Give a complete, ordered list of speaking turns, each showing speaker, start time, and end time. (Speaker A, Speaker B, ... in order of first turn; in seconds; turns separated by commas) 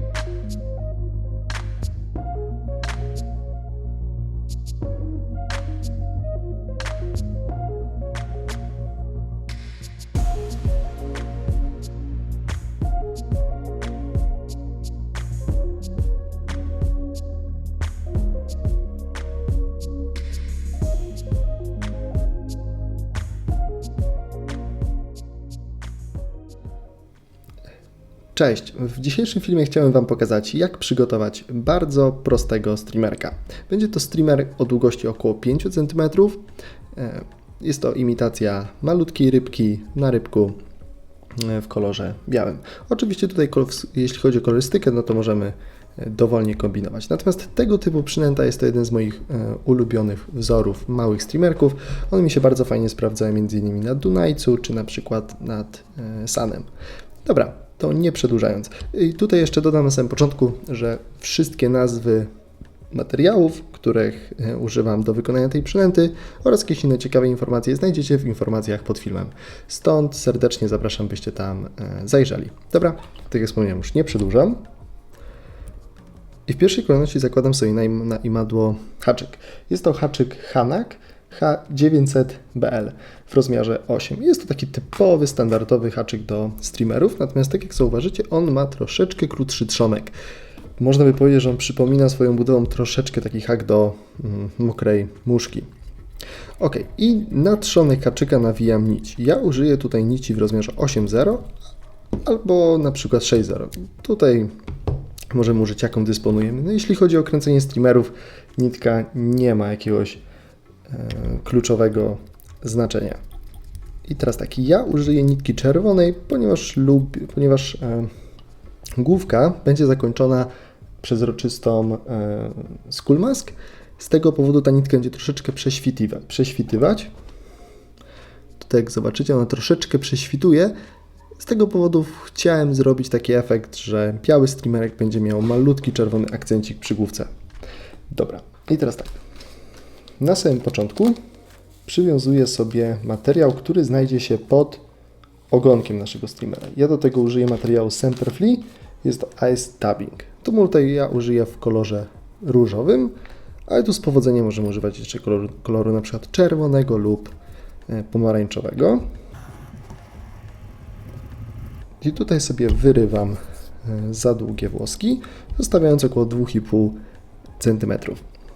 Speaker A: 28.3-36.4, Speaker A: 36.9-40.6, Speaker A: 41.3-56.7, Speaker A: 57.2-62.3, Speaker A: 62.9-74.6, Speaker A: 76.5-90.2, Speaker A: 90.8-95.7, Speaker A: 96.6-101.5, Speaker A: 102.2-104.5, Speaker A: 105.3-110.2, Speaker A: 110.9-113.2, Speaker A: 114.0-118.1, Speaker A: 119.0-120.5, Speaker A: 121.0-127.1, Speaker A: 128.6-130.7, Speaker A: 131.4-137.3, Speaker A: 138.1-139.2, Speaker A: 140.2-141.2, Speaker A: 141.8-144.8, Speaker A: 145.5-153.1, Speaker A: 153.7-157.3, Speaker A: 157.9-159.1, Speaker A: 162.0-167.0, Speaker A: 167.6-168.2